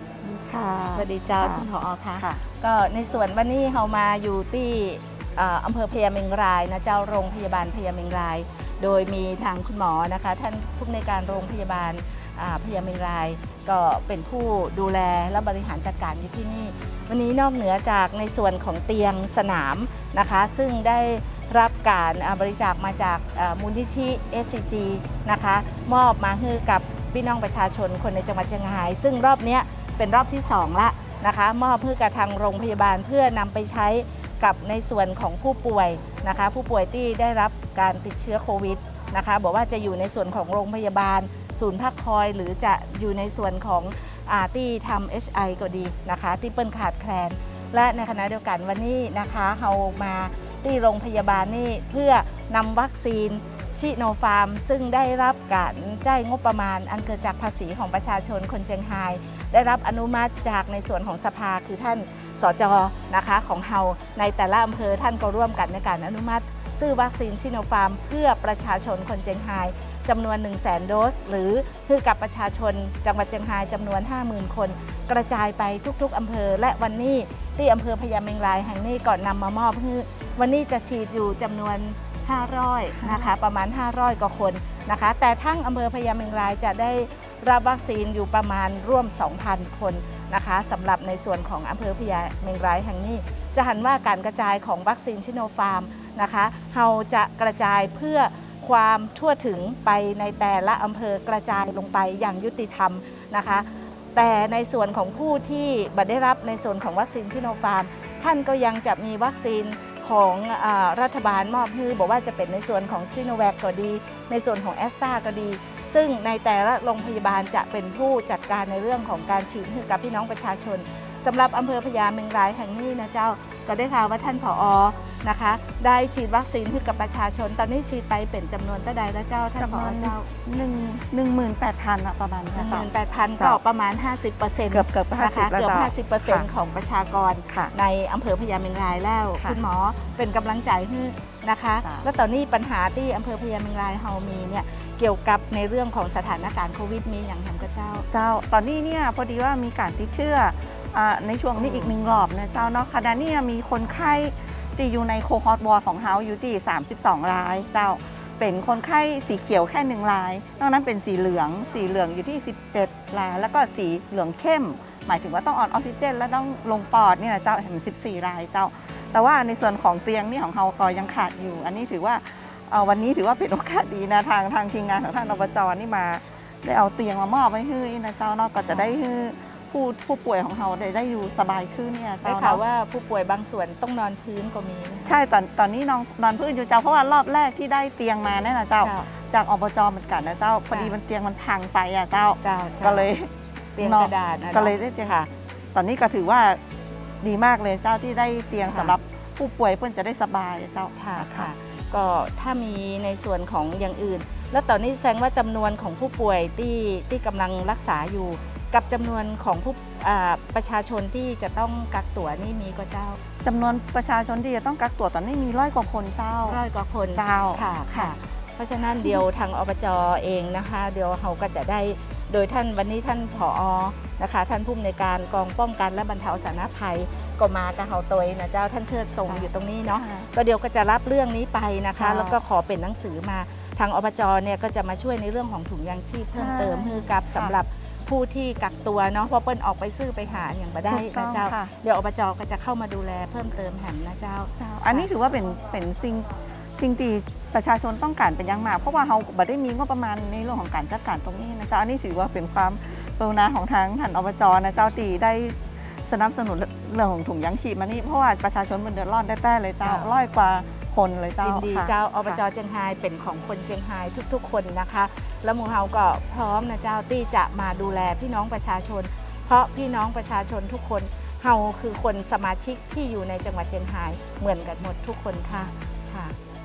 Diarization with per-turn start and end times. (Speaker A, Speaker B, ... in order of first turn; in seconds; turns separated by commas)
Speaker A: 0.2-2.4, Speaker B: 0.9-130.3, Speaker A: 83.0-83.3, Speaker A: 129.6-133.6, Speaker B: 132.5-148.0, Speaker A: 134.7-136.5, Speaker A: 137.5-137.7, Speaker A: 148.1-182.6, Speaker B: 151.6-151.9, Speaker B: 182.2-185.2, Speaker A: 185.0-196.6, Speaker B: 188.8-189.1, Speaker B: 190.7-190.9, Speaker B: 192.4-193.1, Speaker B: 193.8-195.3, Speaker A: 197.2-201.5, Speaker B: 198.7-199.0, Speaker B: 200.9-213.2, Speaker A: 213.4-216.6, Speaker B: 216.4-245.1, Speaker A: 217.1-218.1, Speaker A: 229.2-230.3, Speaker A: 232.0-232.4, Speaker A: 236.3-237.6, Speaker A: 240.9-241.7, Speaker A: 244.6-262.4, Speaker B: 259.8-260.1, Speaker B: 261.4-276.4